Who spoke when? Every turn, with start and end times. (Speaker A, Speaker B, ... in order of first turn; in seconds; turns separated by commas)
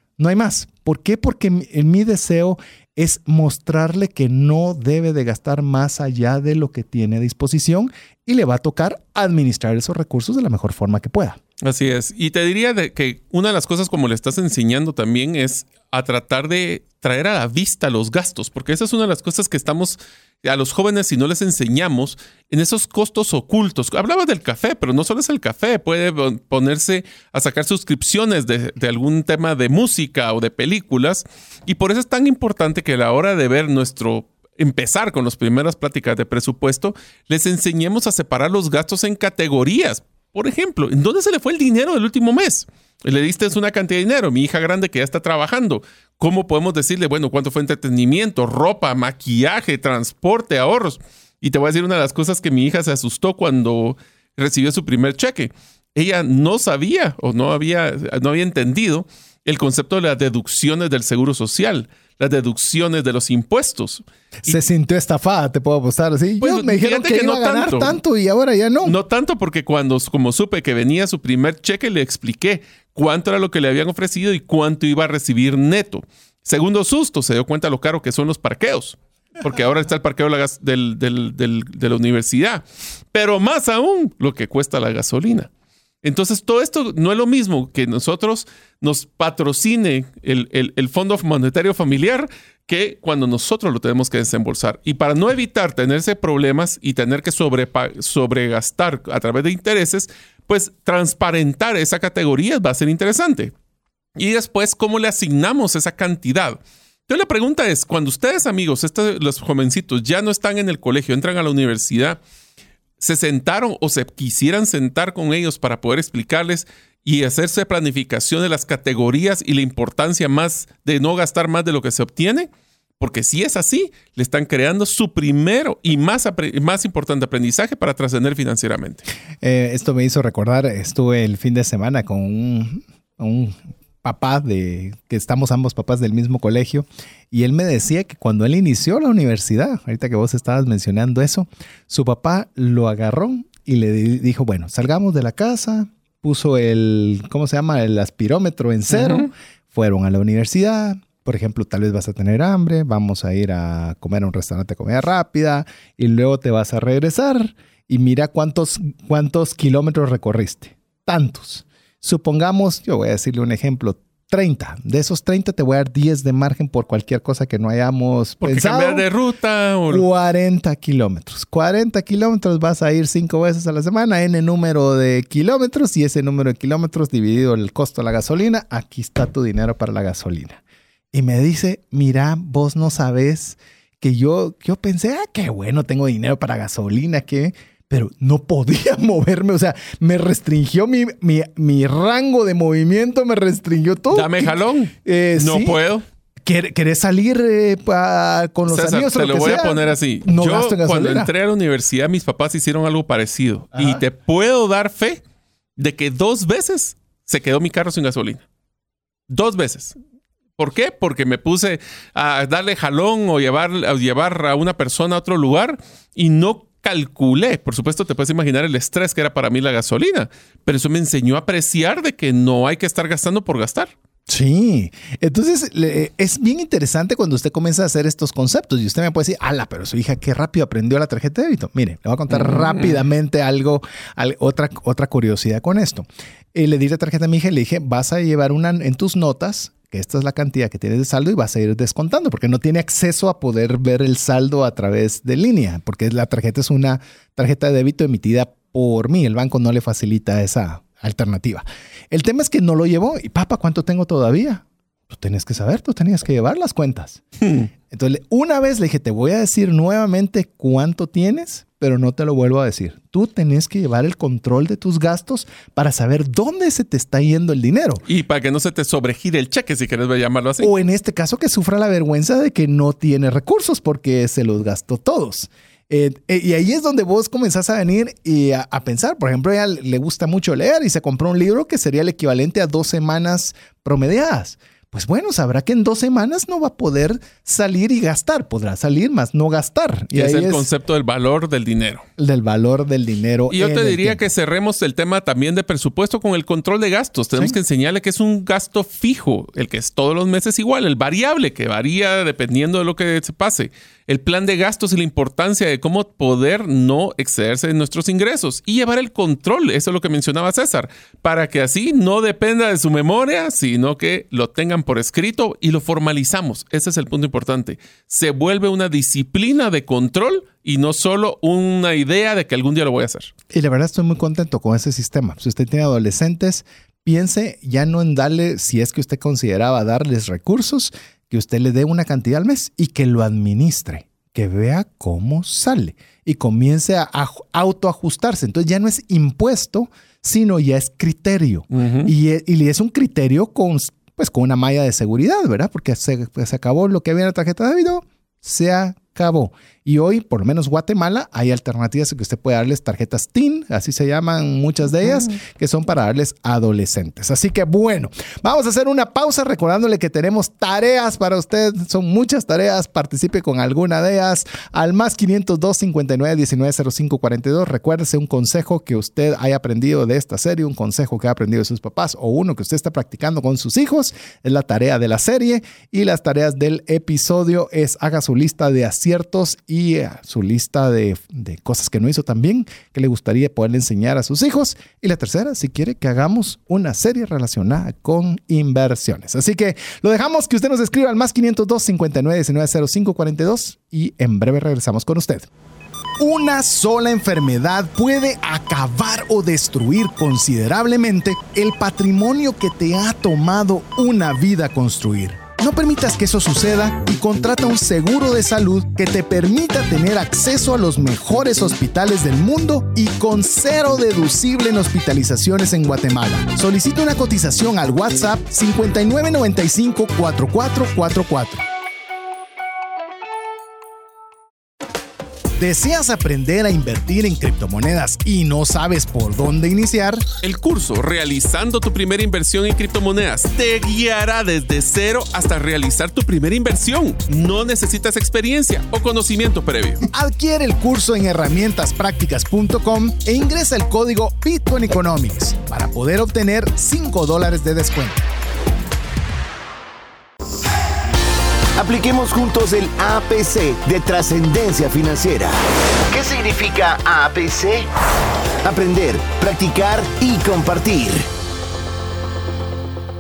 Speaker A: 0.2-11.4, Speaker B: 11.6-64.5, Speaker A: 64.5-68.9, Speaker B: 66.4-68.0, Speaker B: 68.8-85.5, Speaker B: 86.0-103.5, Speaker B: 104.2-112.2, Speaker B: 113.0-129.0, Speaker A: 129.4-169.1, Speaker B: 148.9-149.2, Speaker B: 168.4-170.0, Speaker A: 169.9-180.6, Speaker A: 181.1-195.8, Speaker B: 194.1-196.0, Speaker A: 196.4-201.3, Speaker B: 198.7-205.2, Speaker A: 203.7-204.0, Speaker B: 205.8-208.4, Speaker B: 209.3-209.9, Speaker B: 210.6-223.9, Speaker A: 224.3-257.2, Speaker B: 232.4-232.9, Speaker A: 257.9-268.0, Speaker B: 268.1-270.7, Speaker A: 270.6-290.7, Speaker B: 290.1-292.1, Speaker A: 292.2-294.3, Speaker B: 293.5-323.3, Speaker A: 323.5-395.5, Speaker B: 341.7-342.1, Speaker A: 396.2-421.6, Speaker A: 425.6-430.2, Speaker B: 430.4-440.0, Speaker A: 440.0-448.2, Speaker C: 451.8-455.6, Speaker C: 456.1-457.9, Speaker C: 458.6-461.2